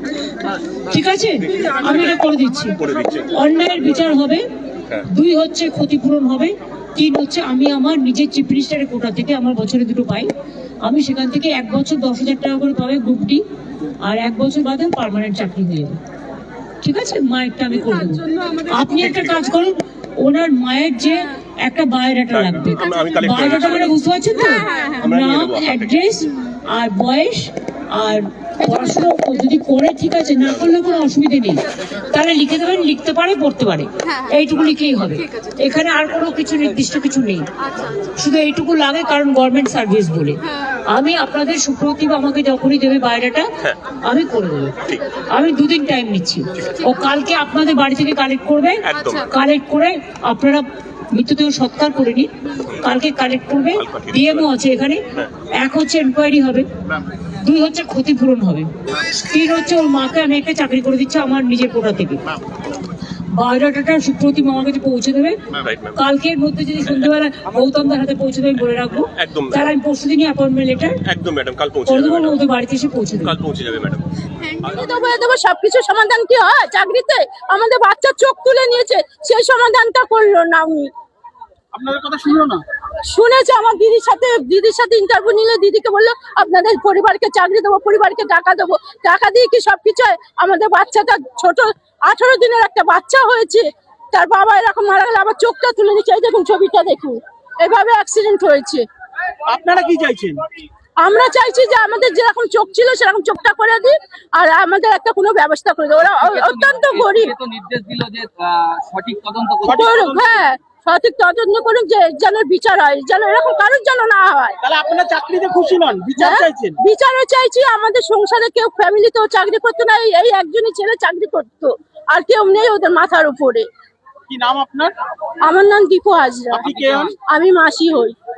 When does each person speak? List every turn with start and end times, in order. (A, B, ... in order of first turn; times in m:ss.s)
0:00.9-0:04.4 A
0:02.8-0:03.2 B
0:05.0-0:10.3 A
0:10.8-0:13.4 A
0:14.0-0:16.0 A
0:16.8-0:37.4 A
0:22.5-0:23.9 B
0:25.0-0:25.8 B
0:38.0-0:43.5 A
0:44.0-0:44.8 A
0:45.3-0:55.0 A
0:48.9-0:49.2 B
0:53.8-0:54.4 B
0:55.6-0:56.6 A
0:57.4-1:02.2 A
1:03.4-1:05.4 A
1:05.6-1:05.9 B
1:05.9-1:11.0 A
1:09.2-1:09.6 B
1:11.0-1:12.3 B
1:11.8-1:13.3 A
1:13.3-1:14.0 B
1:14.6-1:20.9 C
1:21.7-1:22.6 D
1:23.1-1:38.8 C
1:39.5-1:40.4 D
1:41.0-1:47.3 C
1:46.0-1:50.0 E
1:49.6-1:50.4 D
1:49.6-1:54.6 C
1:54.6-1:56.8 D
1:56.2-2:03.6 C
2:04.3-2:04.9 D
2:05.4-2:06.7 C
2:06.5-2:07.1 D
2:06.6-2:07.1 E
2:07.3-2:08.1 C